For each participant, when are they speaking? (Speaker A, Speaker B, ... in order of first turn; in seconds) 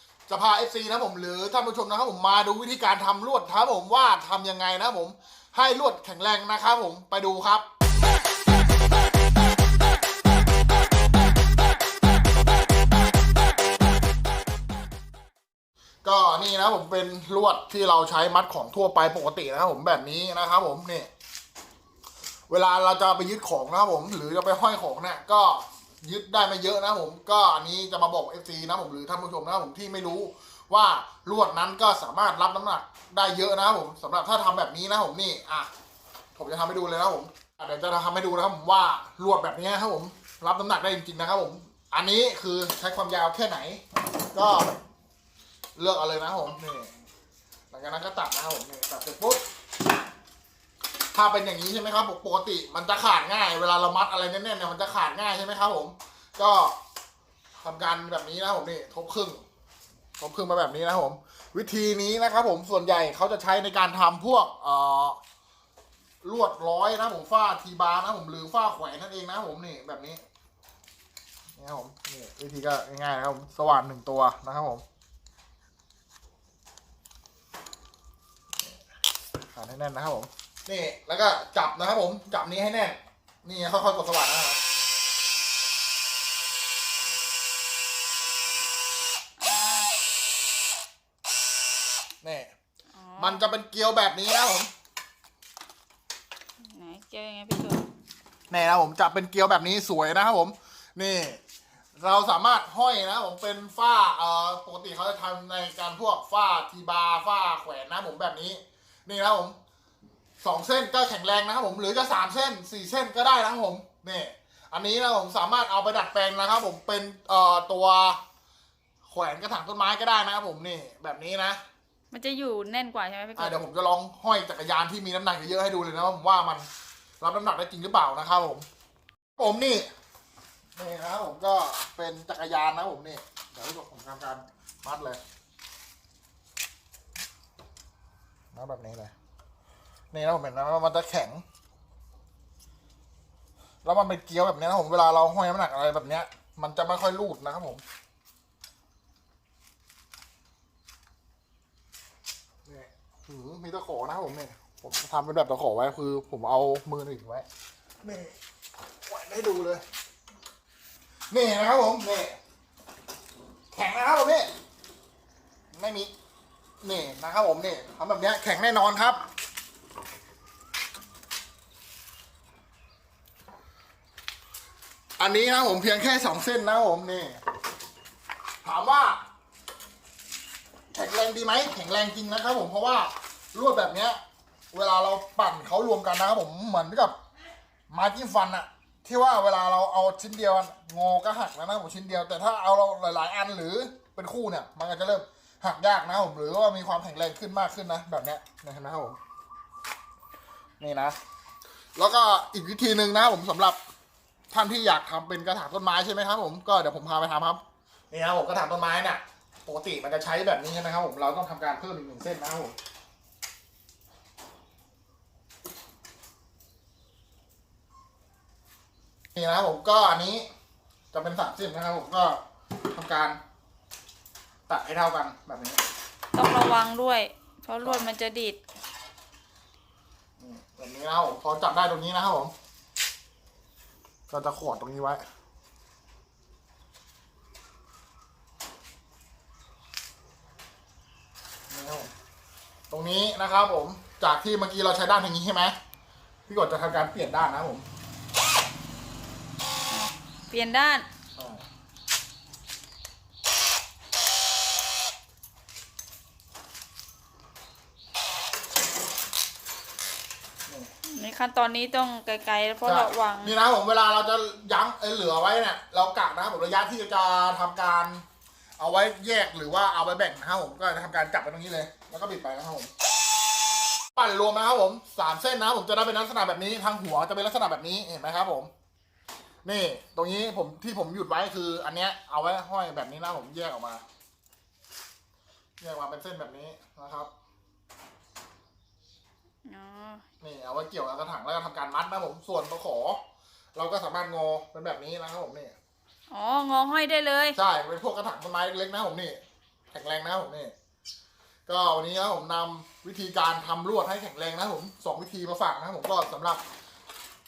Speaker A: 0.3-7.7, 16.0-21.1, 22.5-35.7, 36.3-44.7, 45.8-46.9, 47.7-49.4, 51.1-56.8, 57.6-59.4, 60.2-65.2, 66.2-70.2, 71.6-74.8, 79.5-84.6, 92.2-92.5, 93.2-94.7, 98.5-101.4, 101.9-109.6, 110.4-118.2, 119.0-121.6, 123.4-126.7, 127.2-128.7, 129.4-129.9, 130.8-135.2, 138.5-139.1, 140.1-141.4, 143.8-147.8, 152.7-157.4, 158.0-158.3, 159.1-159.8, 161.3-162.4, 163.7-164.5, 165.7-166.1, 166.8-169.2, 175.2-177.4, 178.6-179.2, 180.9-184.2, 184.7-187.2, 187.9-199.2, 200.8-201.2, 202.0-203.8, 204.5-212.8, 219.3-220.5, 221.1-223.4, 224.7-225.8, 230.4-232.5, 234.3-235.2, 241.7-242.1, 242.9-245.8, 246.5-247.8, 251.3-251.6, 262.8-268.2, 268.8-272.9, 274.1-278.7, 279.6-284.0, 285.8-287.3, 290.4-293.2, 293.7-295.8, 297.5-299.4, 299.9-300.7, 301.7-306.6
Speaker B: 89.4-90.0, 93.0-93.5, 96.6-97.9, 122.1-123.6, 226.3-228.6, 249.9-251.1, 261.0-263.6, 289.6-290.2, 296.3-297.6